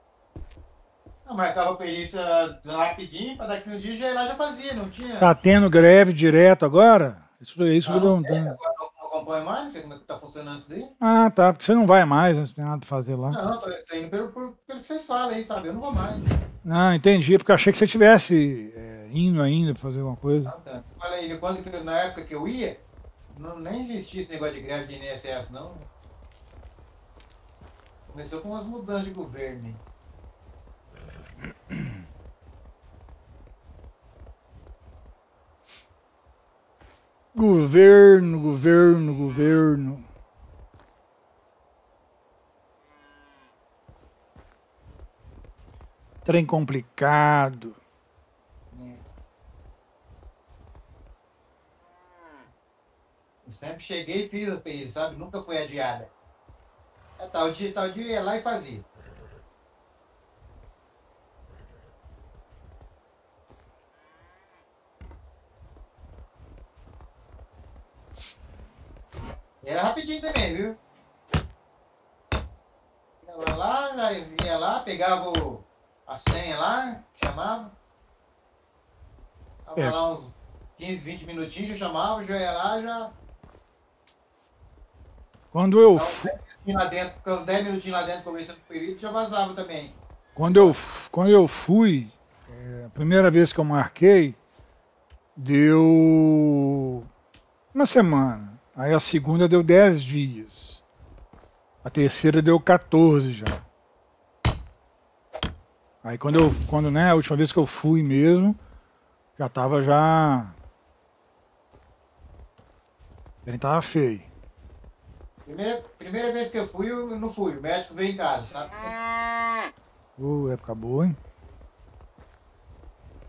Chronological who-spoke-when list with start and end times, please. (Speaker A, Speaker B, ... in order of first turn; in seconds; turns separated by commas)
Speaker A: 1.2-5.3, Speaker B: 5.2-8.5, Speaker A: 7.8-10.9, Speaker B: 11.0-13.4, Speaker A: 13.3-16.3, Speaker B: 16.6-20.5, Speaker A: 20.4-25.9, Speaker A: 28.1-29.8, Speaker B: 37.3-40.1, Speaker B: 46.2-47.8, Speaker A: 48.7-49.0, Speaker A: 53.4-56.1, Speaker A: 57.2-58.8, Speaker A: 69.6-70.8, Speaker A: 73.2-77.7, Speaker A: 79.6-83.1, Speaker B: 85.5-86.3, Speaker A: 85.9-90.8, Speaker B: 90.3-94.4, Speaker B: 95.3-97.1, Speaker B: 97.7-100.8, Speaker B: 101.8-103.6, Speaker B: 106.0-108.6, Speaker B: 109.4-110.5, Speaker B: 113.5-114.3, Speaker A: 115.5-118.9, Speaker B: 120.2-121.2